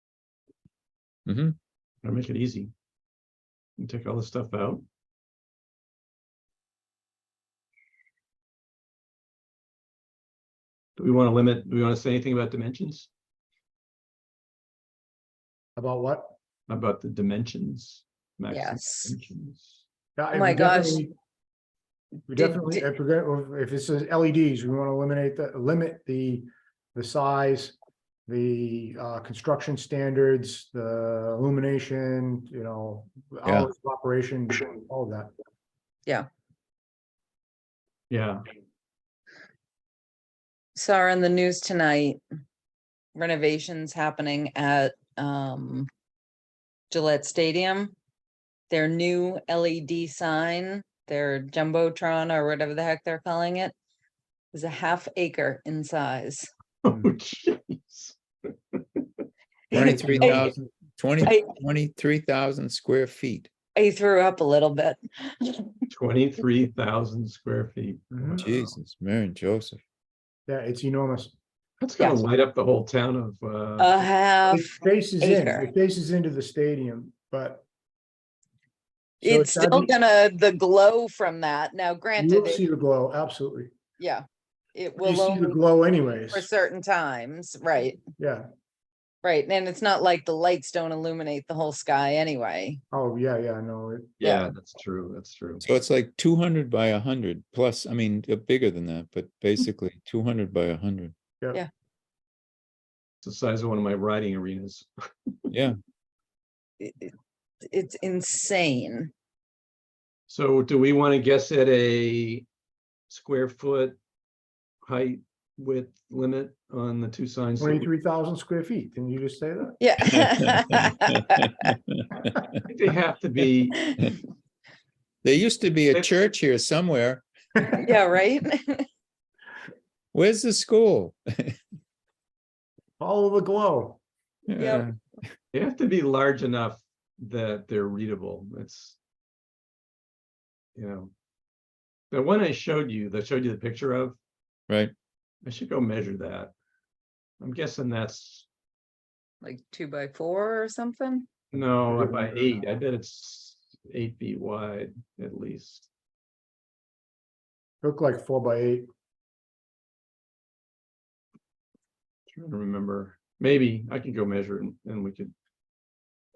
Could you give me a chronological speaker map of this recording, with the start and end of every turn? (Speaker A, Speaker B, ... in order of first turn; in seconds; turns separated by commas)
Speaker A: 1.3-1.6, Speaker B: 2.0-2.7, Speaker B: 3.8-4.8, Speaker B: 11.0-13.1, Speaker C: 15.8-16.3, Speaker B: 16.7-19.8, Speaker D: 18.5-19.2, Speaker C: 20.2-21.1, Speaker D: 20.3-21.0, Speaker C: 22.3-27.8, Speaker D: 22.4-22.8, Speaker C: 28.3-35.3, Speaker B: 38.1-38.4, Speaker D: 40.8-42.2, Speaker D: 43.1-45.9, Speaker D: 46.9-47.9, Speaker D: 48.7-53.7, Speaker D: 54.5-56.5, Speaker B: 56.8-58.2, Speaker B: 58.7-59.0, Speaker D: 59.7-60.5, Speaker A: 59.7-63.5, Speaker C: 59.7-60.6, Speaker D: 61.2-61.5, Speaker D: 63.8-65.9, Speaker B: 65.9-68.4, Speaker C: 68.1-68.7, Speaker A: 68.4-69.8, Speaker C: 70.5-71.3, Speaker B: 71.8-74.1, Speaker D: 72.0-72.3, Speaker D: 73.8-75.7, Speaker C: 74.5-77.7, Speaker C: 79.2-79.9, Speaker D: 79.2-82.6, Speaker C: 82.2-83.7, Speaker D: 84.0-85.6, Speaker C: 85.0-86.5, Speaker D: 86.3-88.0, Speaker C: 88.2-88.5, Speaker D: 89.2-92.8, Speaker C: 92.9-94.2, Speaker B: 94.2-95.7, Speaker D: 94.2-94.5, Speaker A: 95.6-101.1, Speaker B: 103.2-105.3, Speaker A: 105.5-105.8, Speaker D: 106.8-107.1, Speaker D: 107.7-109.1, Speaker B: 110.3-112.5, Speaker B: 113.1-114.0, Speaker B: 114.8-117.9, Speaker C: 117.6-119.8, Speaker D: 119.8-121.7, Speaker A: 120.4-121.7, Speaker B: 122.6-123.9, Speaker A: 125.2-127.3, Speaker D: 127.6-128.9, Speaker A: 130.1-131.6, Speaker C: 133.0-134.0, Speaker A: 134.5-134.9, Speaker D: 134.6-134.9, Speaker B: 135.5-139.0, Speaker B: 140.8-141.1, Speaker B: 142.1-144.2, Speaker B: 145.4-146.5, Speaker B: 147.4-148.5, Speaker D: 149.4-151.3, Speaker B: 151.5-155.9, Speaker C: 151.8-152.6, Speaker C: 157.8-158.9, Speaker B: 162.3-165.3